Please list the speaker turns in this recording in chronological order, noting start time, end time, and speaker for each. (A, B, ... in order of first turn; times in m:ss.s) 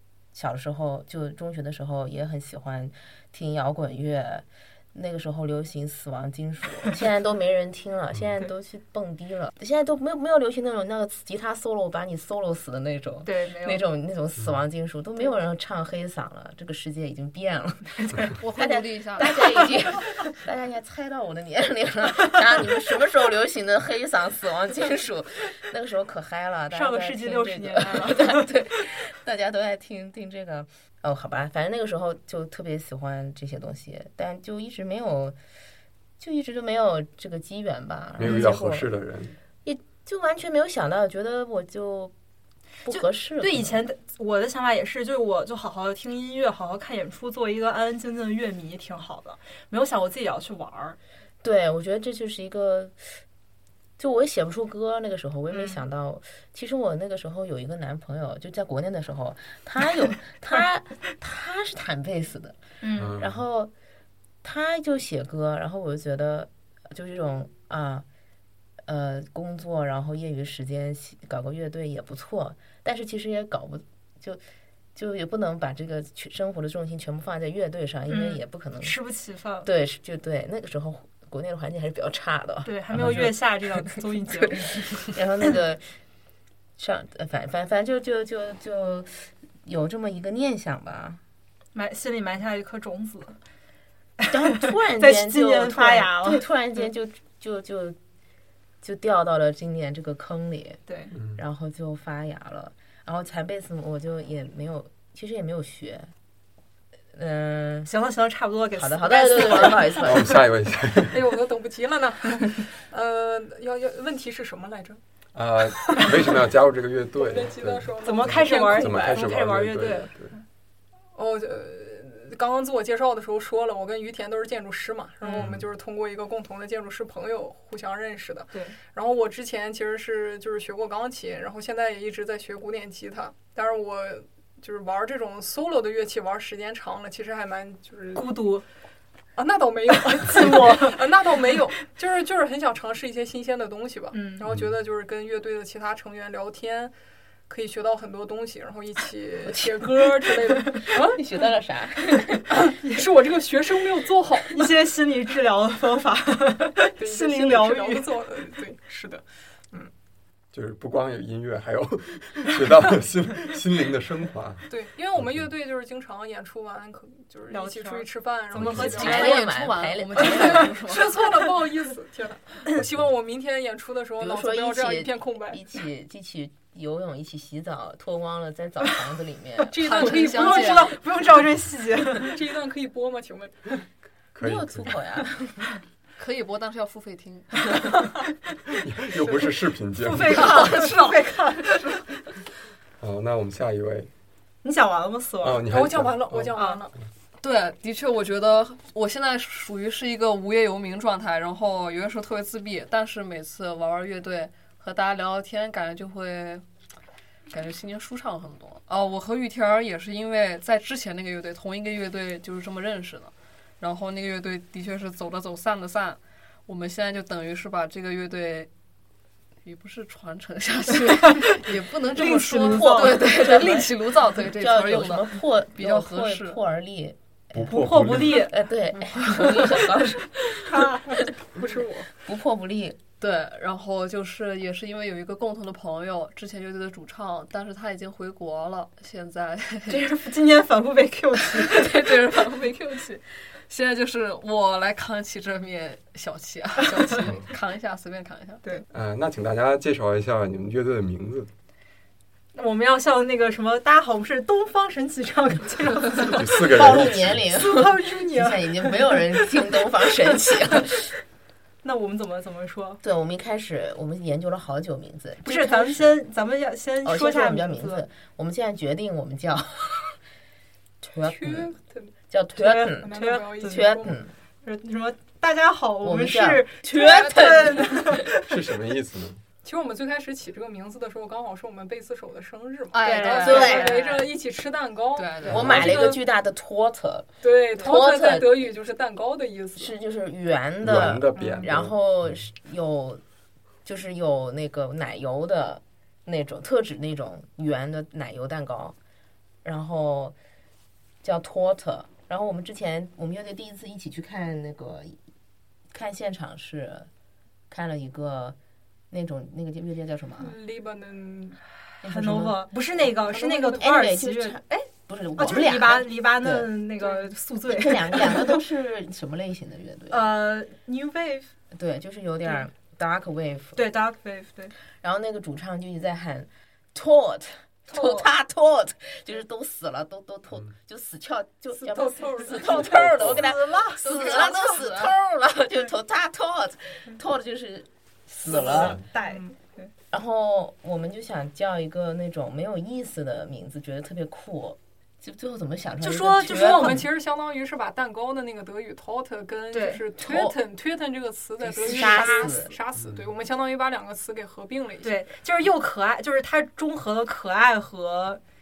0:00.3-0:17.9 A
0:13.2-0:13.8 B
0:17.9-0:18.3 B
0:18.4-0:19.6 C
0:18.5-0:35.4 A
0:26.7-0:28.5 B
0:36.2-0:38.9 A
0:38.2-0:39.4 D
0:38.2-0:38.5 B
0:39.6-0:42.1 A
0:42.8-0:43.8 A
0:42.9-0:51.0 B
0:51.4-0:53.0 A
0:54.0-1:02.6 A
0:55.5-0:55.8 B
1:02.8-1:03.2 B
1:03.0-1:03.4 D
1:03.2-1:03.7 A
1:04.4-1:08.0 A
1:08.8-1:14.4 A
1:15.0-1:19.0 A
1:18.1-1:19.7 B
1:19.6-1:25.8 A
1:22.6-1:25.2 B
1:26.8-1:31.2 A
1:31.8-1:33.4 B
1:34.2-1:36.4 B
1:34.3-1:38.0 A
1:38.8-1:40.8 A
1:40.9-1:41.2 B
1:41.2-1:41.4 D
1:41.3-1:46.1 A
1:47.1-1:47.9 A
1:47.8-1:50.3 B
1:48.8-1:50.4 A
1:50.0-1:51.2 D
1:51.1-1:55.0 E
1:55.3-2:00.3 D
1:55.8-1:56.4 E
1:57.2-1:59.2 E
1:58.0-2:00.1 B
2:01.2-2:18.3 E
2:05.2-2:05.5 B
2:05.4-2:05.6 D
2:18.2-2:18.6 B
2:19.4-2:26.9 E
2:20.1-2:21.0 B
2:24.1-2:24.5 B
2:27.5-2:31.2 E
2:29.5-2:32.4 A
2:32.5-2:34.7 E
2:34.5-2:38.1 B
2:37.0-2:39.9 E
2:40.5-2:45.4 D
2:44.7-2:49.4 E
2:47.5-2:49.4 B
2:48.5-2:49.0 D
2:48.7-2:50.7 A
2:49.0-2:51.2 C
2:50.2-2:55.7 E
2:54.2-2:59.7 A
2:59.7-3:00.9 E
2:59.8-3:01.0 C
2:59.8-3:02.4 B
3:02.2-3:03.6 E
3:04.3-3:05.0 D
3:04.4-3:05.8 A
3:06.2-3:07.9 C
3:08.7-3:10.6 D
3:10.0-3:11.4 B
3:10.1-3:12.0 E
3:10.2-3:11.7 C
3:13.0-3:14.1 D
3:14.6-3:15.6 B
3:15.4-3:16.6 D
3:15.7-3:16.9 E
3:16.5-3:16.8 B
3:17.4-3:26.6 C
3:27.5-3:38.7 C
3:39.6-3:46.6 C
3:41.2-3:41.6 B
3:42.1-3:43.5 B
3:42.7-3:43.9 A
3:44.5-3:50.5 A
3:47.5-3:48.5 D
3:47.7-3:48.6 B
3:49.0-3:49.8 C
3:50.5-3:51.2 B
3:50.7-3:52.1 E
3:52.2-3:53.0 A
3:53.2-4:00.2 C
3:59.9-4:02.1 B
4:01.6-4:08.8 C
4:07.2-4:07.5 D
4:08.9-4:11.5 D
4:12.5-4:19.5 B
4:16.3-4:17.4 D
4:16.6-4:21.1 A
4:20.2-4:20.8 B
4:21.8-4:23.0 B
4:23.0-4:26.1 A
4:25.4-4:28.0 B
4:27.0-4:30.2 A
4:31.0-4:31.7 A
4:31.2-4:32.1 E
4:32.3-4:34.3 A
4:32.6-4:34.0 B
4:33.0-4:34.2 E
4:34.6-4:38.6 B
4:36.0-4:38.3 A
4:38.5-4:39.4 D
4:39.6-4:46.2 E
4:42.9-4:44.2 C
4:43.0-4:44.2 B
4:43.4-4:44.0 A
4:45.2-4:45.7 C
4:45.5-4:48.7 A
4:45.5-4:46.0 D
4:47.4-4:49.9 E
4:49.8-4:53.2 A
4:50.8-4:52.4 D
4:51.4-4:51.6 B
4:53.8-4:59.0 A
4:59.6-5:00.4 A
5:01.2-5:05.2 A
5:05.9-5:07.1 A
5:07.7-5:08.6 A
5:09.1-5:10.6 A
5:10.4-5:11.6 E
5:12.0-5:12.6 A
5:12.0-5:18.6 B
5:13.2-5:13.8 E
5:13.8-5:16.7 A
5:17.7-5:20.2 A
5:20.1-5:21.5 B
5:21.7-5:23.8 A
5:23.8-5:24.7 B
5:25.0-5:39.0 A
5:27.9-5:28.3 B
5:31.8-5:33.1 E
5:32.4-5:34.5 B
5:32.7-5:33.5 D
5:34.0-5:35.2 C
5:38.4-5:39.9 B
5:40.1-5:47.0 A
5:46.0-5:47.1 B
5:46.5-5:55.2 E
5:49.7-5:50.0 B
5:50.2-5:50.6 A
5:51.6-5:52.8 A
5:51.8-5:52.5 B
5:53.0-5:53.2 D
5:55.0-5:58.4 B